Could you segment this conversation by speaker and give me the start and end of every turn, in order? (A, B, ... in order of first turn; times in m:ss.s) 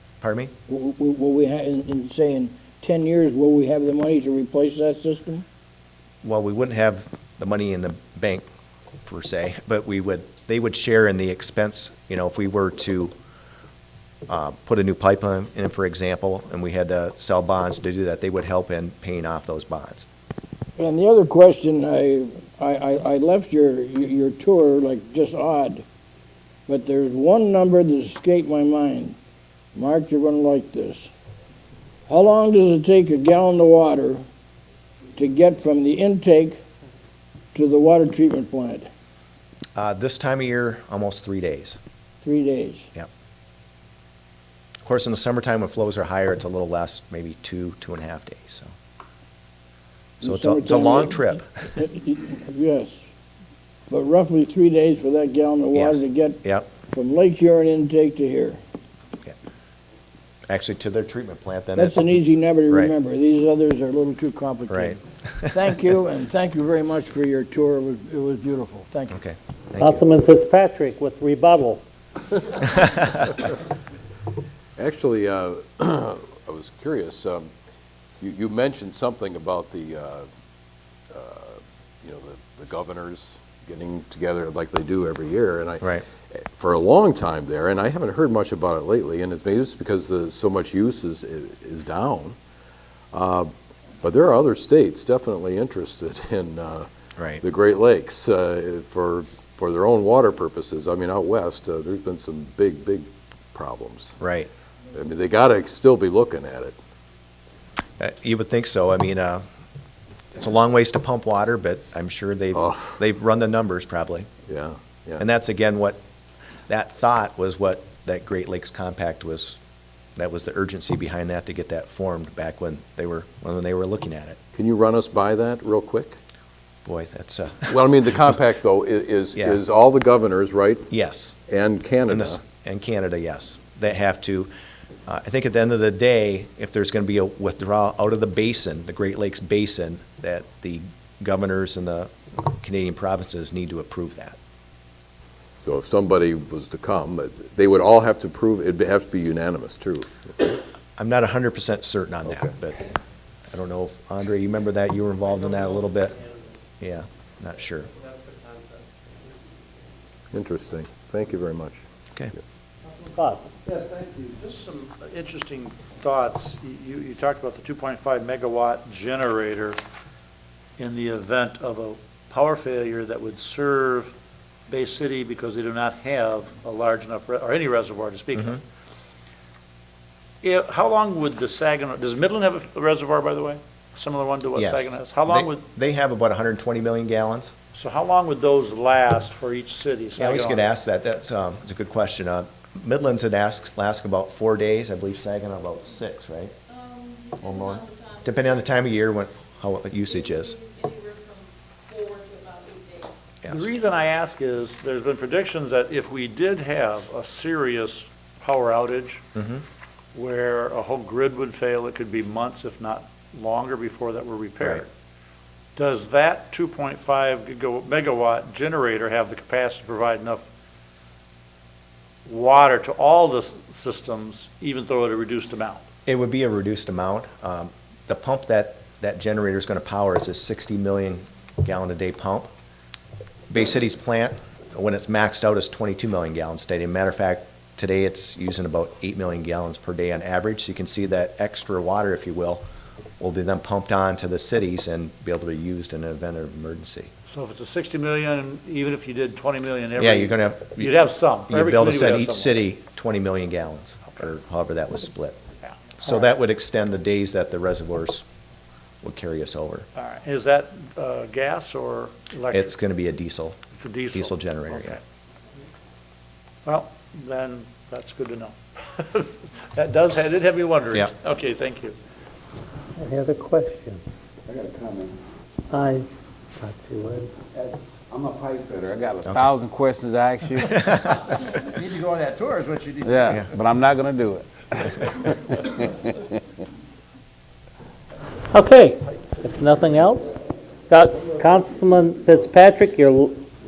0:00.2-0:00.5 A
0:00.7-0:05.4 B
0:06.2-0:08.4 A
0:09.0-0:13.1 A
0:14.3-0:20.1 A
0:20.8-0:25.8 B
0:26.7-0:29.2 B
0:29.8-0:31.1 B
0:32.1-0:34.2 B
0:35.2-0:36.6 B
0:37.5-0:38.9 B
0:39.8-0:41.8 A
0:42.2-0:42.9 B
0:44.8-0:48.7 A
0:50.2-0:53.0 B
0:50.2-0:51.7 A
0:53.9-0:58.6 B
0:55.7-0:56.7 A
1:00.5-1:02.0 A
1:01.8-1:09.2 B
1:04.7-1:05.5 A
1:09.1-1:10.0 A
1:09.8-1:11.8 C
1:12.8-1:13.1 A
1:14.8-1:17.5 D
1:18.2-1:20.3 D
1:21.1-1:32.4 D
1:33.1-1:33.5 D
1:34.0-1:36.9 D
1:37.2-1:37.4 A
1:37.4-1:44.2 D
1:44.2-1:44.5 A
1:44.9-1:46.8 D
1:48.0-1:49.4 A
1:50.4-1:54.3 A
1:52.6-1:52.9 D
1:54.5-1:55.2 D
1:55.2-1:56.0 A
1:56.7-1:59.6 A
2:00.2-2:04.4 A
2:04.6-2:06.2 D
2:06.8-2:08.0 A
2:07.7-2:10.9 D
2:10.9-2:11.4 A
2:11.5-2:12.4 D
2:12.1-2:14.5 A
2:15.1-2:24.4 A
2:25.6-2:30.6 D
2:31.0-2:32.9 A
2:33.5-2:36.2 A
2:36.8-2:37.9 A
2:40.3-2:41.8 D
2:43.2-2:43.5 C
2:43.6-2:49.8 E
2:50.8-2:54.1 E
2:54.7-2:58.6 E
3:00.4-3:05.6 E
3:04.6-3:07.5 A
3:07.7-3:10.7 E
3:10.2-3:16.5 A
3:16.8-3:17.4 F
3:17.4-3:20.6 A
3:20.6-3:23.1 F
3:23.4-3:23.7 A
3:23.5-3:29.2 E
3:29.4-3:29.6 A
3:30.1-3:34.9 E
3:35.8-3:40.4 E
3:42.3-3:45.8 E
3:46.1-3:52.5 A
3:53.5-4:02.6 A
4:03.2-4:07.1 A
4:07.3-4:12.6 E
4:10.0-4:15.4 A
4:15.6-4:16.2 E
4:16.0-4:18.2 A
4:19.0-4:19.9 A
4:20.0-4:22.7 E
4:22.5-4:23.6 A
4:23.7-4:25.0 E
4:24.1-4:25.0 A
4:26.6-4:32.0 E
4:33.0-4:34.0 C
4:34.5-4:35.2 G
4:35.7-4:37.3 C
4:37.5-4:40.8 G
4:40.7-4:41.2 A
4:41.6-4:43.1 E
4:43.0-4:45.9 G
4:48.5-4:50.4 C
4:50.9-4:53.4 C